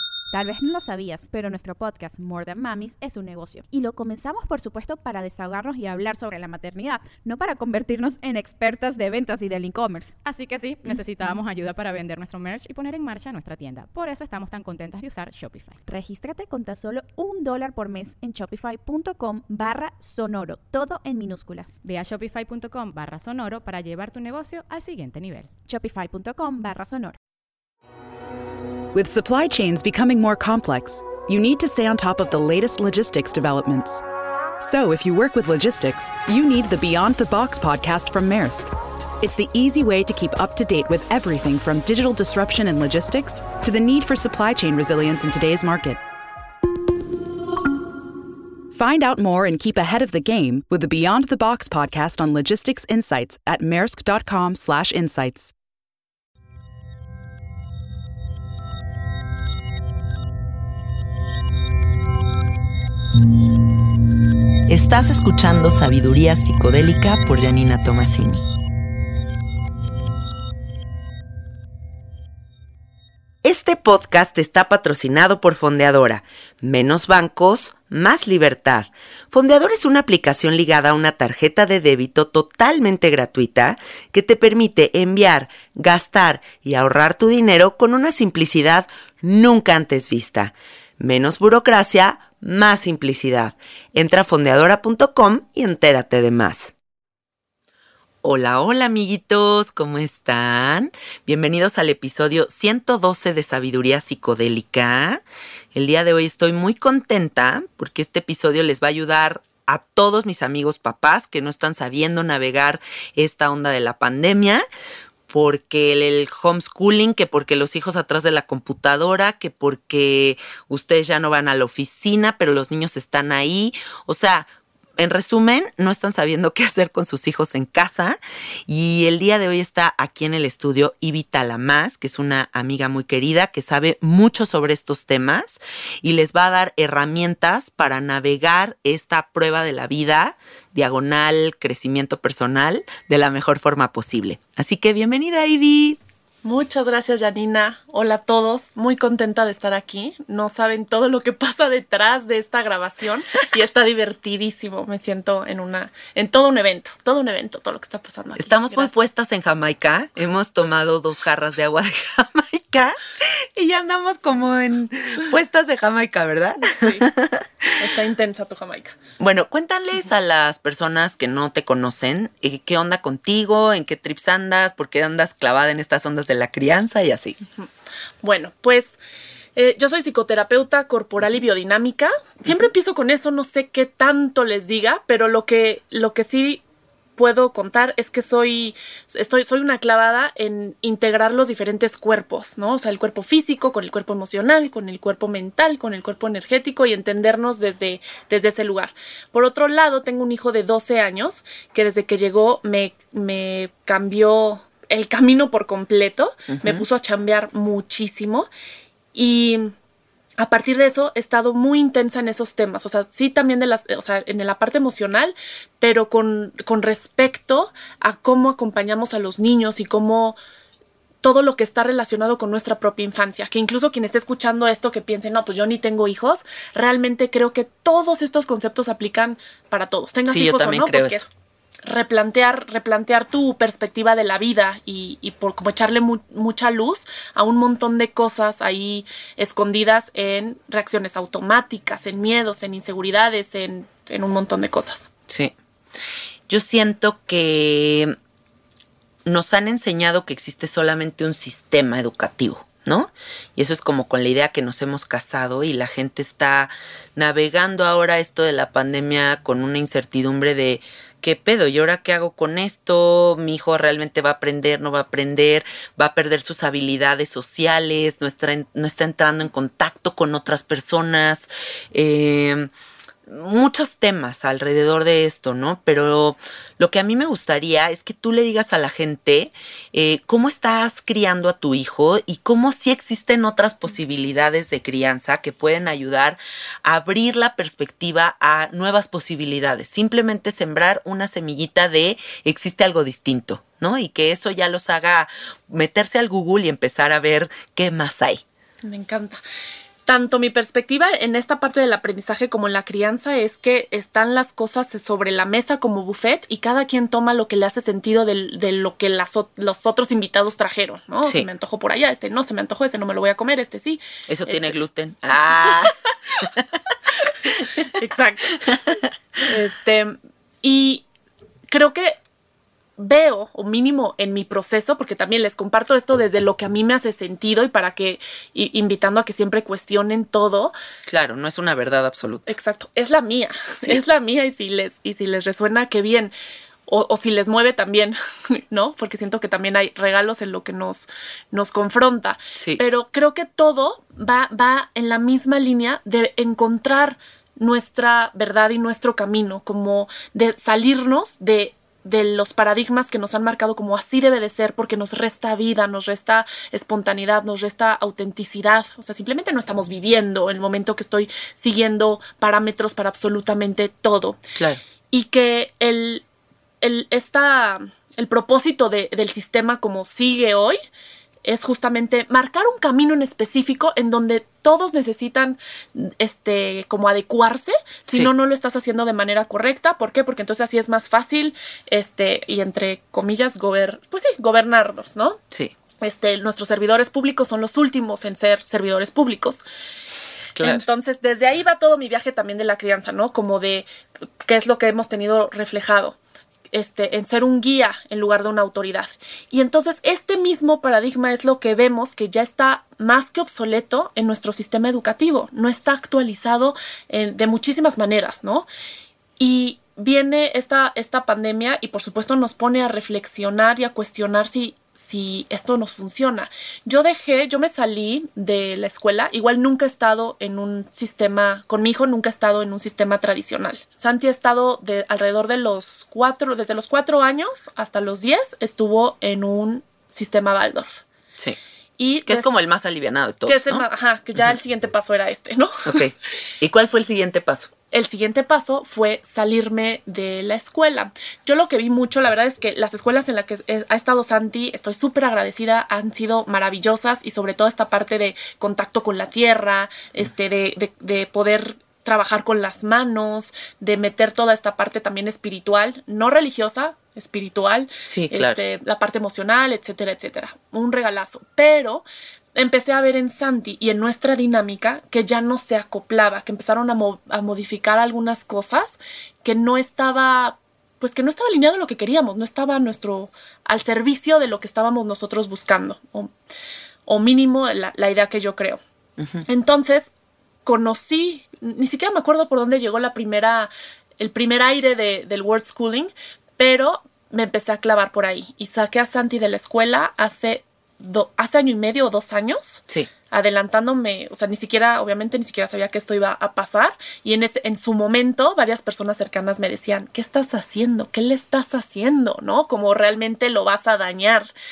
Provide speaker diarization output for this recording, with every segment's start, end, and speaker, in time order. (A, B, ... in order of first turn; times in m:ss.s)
0:00.3-0:10.2 A
0:10.2-0:15.8 B
0:15.9-0:21.8 A
0:21.8-0:25.5 B
0:25.7-0:27.2 A
0:28.9-0:34.0 C
0:34.6-0:46.0 C
0:48.7-0:55.5 C
1:04.7-1:08.4 D
1:13.4-1:36.7 D
1:38.2-1:45.2 D
1:45.7-1:54.6 D
1:55.3-2:26.0 D
2:26.4-2:39.0 E
2:38.4-2:47.9 D
2:46.6-2:47.1 E
2:47.8-2:49.0 E
2:49.2-2:57.4 D
2:58.2-2:59.0 E
2:59.6-3:06.6 E
3:07.2-3:28.5 E
3:26.5-3:26.8 D
3:29.1-3:29.7 E
3:30.4-3:40.4 E
3:41.2-3:51.3 E
3:50.3-3:51.2 D
3:51.8-4:05.1 E
4:05.3-4:05.5 D
4:06.5-4:08.2 D
4:09.3-4:32.7 D
4:33.3-4:58.4 D
4:58.8-4:59.4 E
5:00.1-5:14.8 E
5:14.3-5:16.6 D
5:15.8-5:16.5 E
5:17.1-5:18.8 E
5:18.7-5:19.0 D
5:19.4-5:21.0 E
5:21.7-5:22.2 E
5:23.0-5:30.7 E
5:31.1-5:32.5 D
5:32.5-5:36.3 E
5:36.9-6:04.4 E
5:42.6-5:42.8 D
6:04.6-6:04.8 D
6:05.1-6:06.2 E
6:06.8-6:10.8 E
6:11.4-6:25.4 E
6:26.0-6:29.6 E
6:30.6-6:30.8 D
6:30.6-6:33.9 E
6:34.4-6:36.2 E
6:36.7-6:48.7 E
6:49.4-7:11.0 E
7:12.0-7:12.5 E
7:12.3-7:13.8 D
7:13.5-7:16.1 E
7:15.9-7:17.7 D
7:17.9-7:56.3 E
7:38.1-7:38.6 D
7:57.1-7:58.8 E
7:59.5-8:00.1 E
8:00.6-8:24.5 E